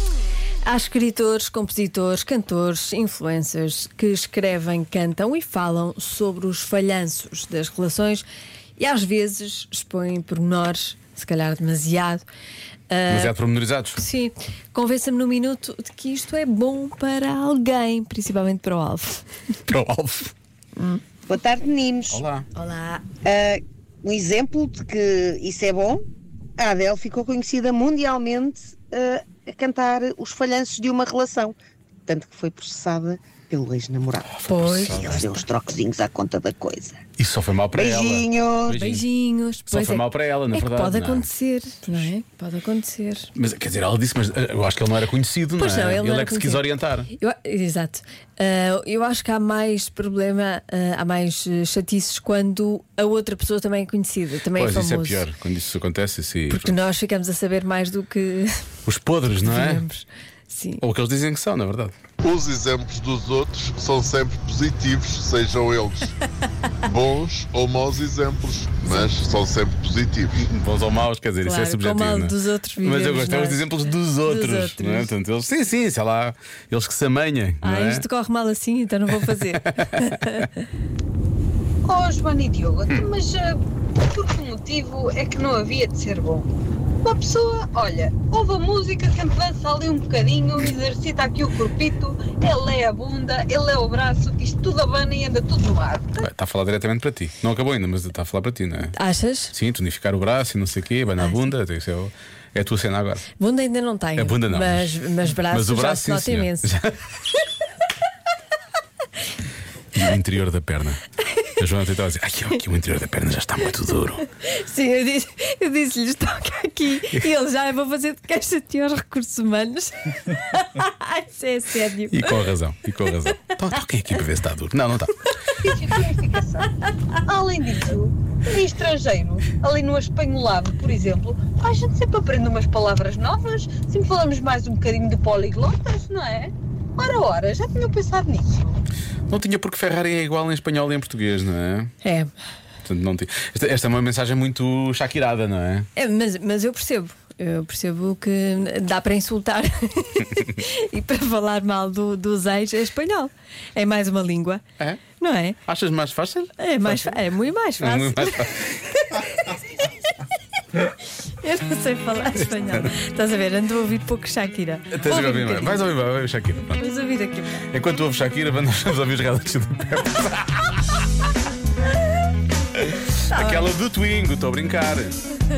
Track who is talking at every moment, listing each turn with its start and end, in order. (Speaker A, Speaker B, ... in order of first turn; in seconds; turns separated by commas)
Speaker A: 0.6-8.2, Speaker A: 8.8-12.2, Speaker A: 12.9-13.3, Speaker B: 13.1-14.0, Speaker A: 14.0-19.2, Speaker B: 19.7-20.3, Speaker C: 20.9-22.2, Speaker B: 22.1-22.4, Speaker A: 22.5-23.0, Speaker C: 23.2-26.0, Speaker C: 26.6-31.6, Speaker C: 32.1-37.0, Speaker B: 34.4-35.3, Speaker A: 34.5-35.4, Speaker B: 37.2-39.0, Speaker C: 37.7-38.8, Speaker A: 38.7-43.3, Speaker B: 39.7-41.3, Speaker B: 43.3-47.1, Speaker A: 45.6-55.3, Speaker B: 54.5-56.7, Speaker A: 56.5-58.6, Speaker B: 58.9-59.8, Speaker A: 59.4-60.8, Speaker B: 60.8-61.9, Speaker D: 62.2-66.1, Speaker D: 66.8-70.5, Speaker B: 70.4-78.0, Speaker A: 71.4-73.7, Speaker A: 74.2-75.1, Speaker A: 77.6-80.5, Speaker B: 79.8-80.4, Speaker E: 81.8-86.5, Speaker E: 87.0-96.3, Speaker B: 96.2-99.0, Speaker A: 98.9-99.5, Speaker B: 99.5-103.2, Speaker A: 103.4-106.7, Speaker B: 104.2-106.9, Speaker B: 109.9-111.0, Speaker B: 111.6-114.2, Speaker A: 114.3-122.5, Speaker B: 122.1-125.2, Speaker E: 125.6-138.8, Speaker B: 139.3-141.9, Speaker A: 142.0-142.3, Speaker B: 142.8-145.9, Speaker A: 145.9-155.6, Speaker B: 155.7-157.2, Speaker A: 156.6-159.6, Speaker B: 157.8-158.6, Speaker A: 161.3-165.9, Speaker B: 164.9-166.8, Speaker A: 166.7-167.7, Speaker B: 167.7-171.0, Speaker B: 172.7-175.2, Speaker A: 173.3-173.7